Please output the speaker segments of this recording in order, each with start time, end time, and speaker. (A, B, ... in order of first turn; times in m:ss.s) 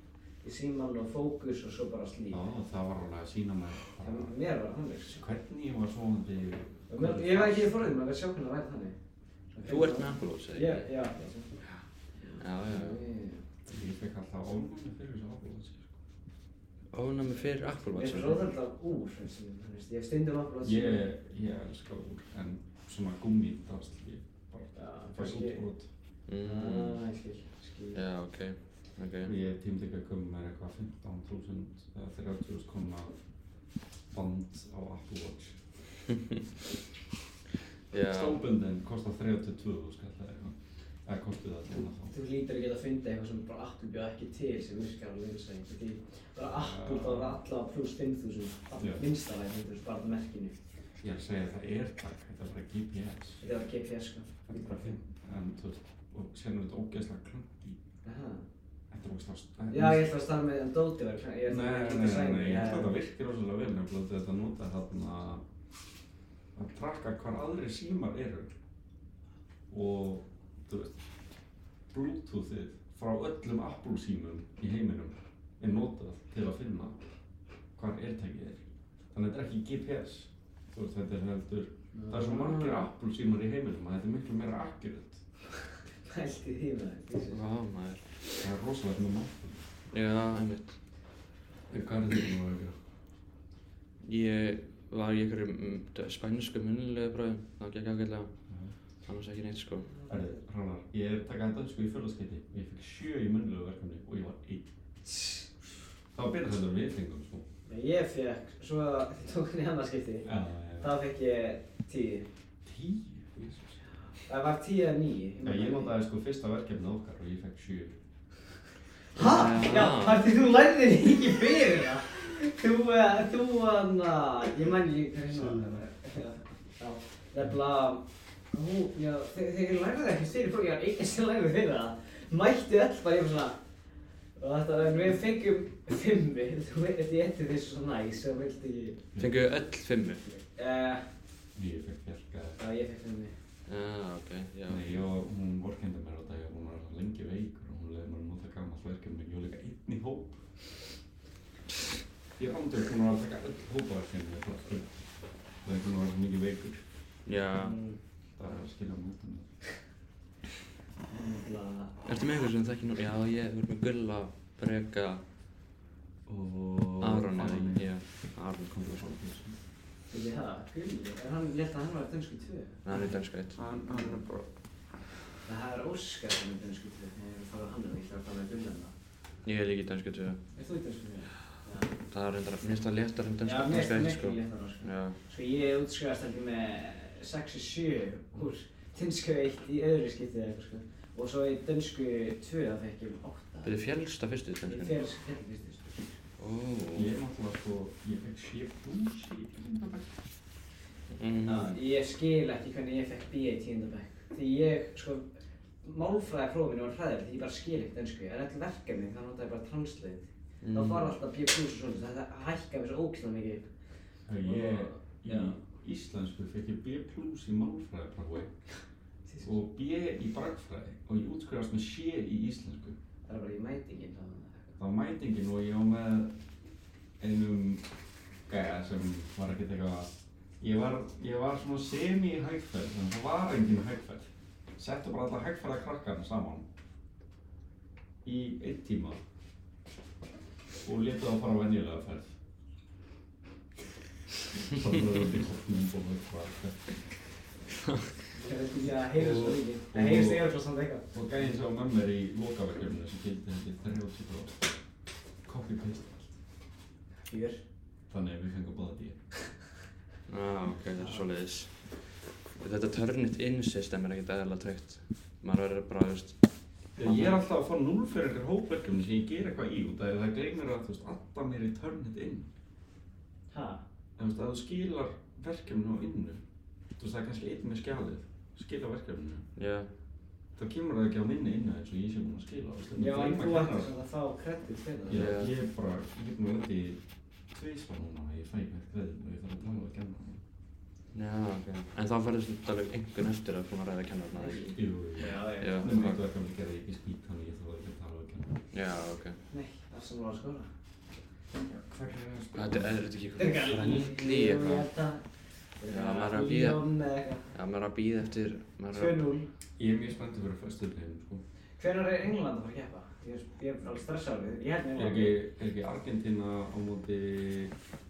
0:00.4-0:02.4 A
0:02.3-0:04.3 B
0:04.0-0:05.2 A
0:05.1-0:07.7 B
0:06.9-0:09.0 A
0:09.5-0:11.5 A
0:09.6-0:10.9 C
0:12.2-0:13.4 A
0:12.4-0:13.0 C
0:13.6-0:16.0 B
0:16.9-0:18.4 C
0:17.9-0:21.1 A
0:20.6-0:25.9 B
0:24.7-0:25.6 A
0:26.3-0:27.0 C
0:26.4-0:28.0 A
0:27.9-0:29.3 C
0:29.2-0:33.1 B
0:34.1-0:35.6 B
0:37.9-0:38.4 C
0:37.9-0:42.1 B
0:42.1-0:50.5 A
0:46.4-0:47.4 B
0:48.8-0:49.0 B
0:51.0-0:53.4 B
0:53.4-0:54.9 A
0:54.5-0:57.8 B
0:58.0-0:58.4 A
0:58.9-1:00.1 B
0:59.7-1:02.9 A
1:01.5-1:05.4 B
1:06.6-1:08.5 B
1:09.7-1:11.0 B
1:11.9-1:17.0 B
1:17.8-1:25.2 B
1:21.9-1:22.8 A
1:26.0-1:27.4 A
1:27.3-1:28.4 C
1:28.4-1:29.6 B
1:29.9-1:30.8 C
1:31.7-1:32.8 B
1:34.0-1:38.3 C
1:38.5-1:38.7 B
1:39.0-1:39.9 C
1:39.9-1:40.4 A
1:40.1-1:44.6 B
1:46.1-1:47.4 B
1:47.7-1:50.3 A
1:50.2-1:50.9 B
1:50.8-1:52.3 A
1:52.6-1:53.8 B
1:54.0-1:55.9 A
1:55.4-1:58.0 B
1:59.1-2:13.6 A
1:59.1-2:00.2 C
2:05.3-2:05.8 B
2:14.4-2:19.0 A
2:19.2-2:20.3 C
2:20.5-2:21.0 A
2:21.5-2:22.6 B
2:22.6-2:23.3 A
2:23.7-2:24.8 C
2:24.7-2:30.4 B
2:32.4-2:34.9 B
2:35.6-2:36.8 B
2:37.2-2:37.8 C
2:37.5-2:38.0 A
2:38.4-2:39.4 B
2:41.1-2:42.1 A
2:42.0-2:45.2 C
2:46.3-2:47.9 B
2:47.0-2:49.2 C
2:48.7-2:49.6 B
2:50.1-2:53.2 A
2:52.8-2:53.6 C
2:53.5-2:54.5 B
2:53.9-2:54.2 A
2:55.4-2:58.9 A
2:59.4-3:00.4 C
3:00.5-3:01.9 A
3:02.1-3:05.2 C
3:03.4-3:13.7 A
3:13.6-3:15.0 C
3:14.6-3:16.1 A
3:16.4-3:17.1 C
3:16.9-3:20.2 B
3:21.1-3:21.8 C
3:21.5-3:25.2 A
3:25.8-3:33.7 A
3:30.6-3:31.1 C
3:34.3-3:38.5 B
3:34.4-3:35.6 A
3:39.4-3:43.0 B
3:43.2-3:44.7 A
3:44.8-3:46.3 B
3:47.2-3:47.8 B
3:48.5-3:56.6 B
3:58.2-3:59.2 B
4:00.8-4:02.3 B
4:04.6-4:07.2 B
4:07.8-4:08.1 C
4:08.3-4:11.1 A
4:09.2-4:10.5 B
4:11.1-4:14.7 B
4:15.4-4:16.4 B
4:17.2-4:17.6 A
4:18.1-4:19.2 B
4:20.3-4:21.8 C
4:21.0-4:21.2 A
4:22.6-4:26.4 C
4:27.0-4:27.3 C
4:27.0-4:32.4 B
4:33.5-4:33.8 A
4:34.2-4:36.4 B
4:37.0-4:39.4 B
4:39.6-4:39.9 C
4:40.6-4:43.9 B
4:42.9-4:45.3 A
4:45.1-4:47.0 B
4:45.1-4:45.5 C
4:47.5-4:50.4 B
4:51.1-4:54.7 C
4:54.3-4:56.0 A
4:54.8-4:58.6 B
4:55.4-4:56.2 C
4:58.7-4:59.4 C
4:59.5-5:00.7 A
5:01.5-5:03.4 B
5:02.5-5:04.9 C
5:03.4-5:05.2 A
5:05.8-5:07.5 A
5:05.9-5:06.9 C
5:07.5-5:09.2 C
5:08.9-5:09.5 A
5:09.8-5:11.4 B
5:11.8-5:15.3 A
5:14.9-5:17.7 B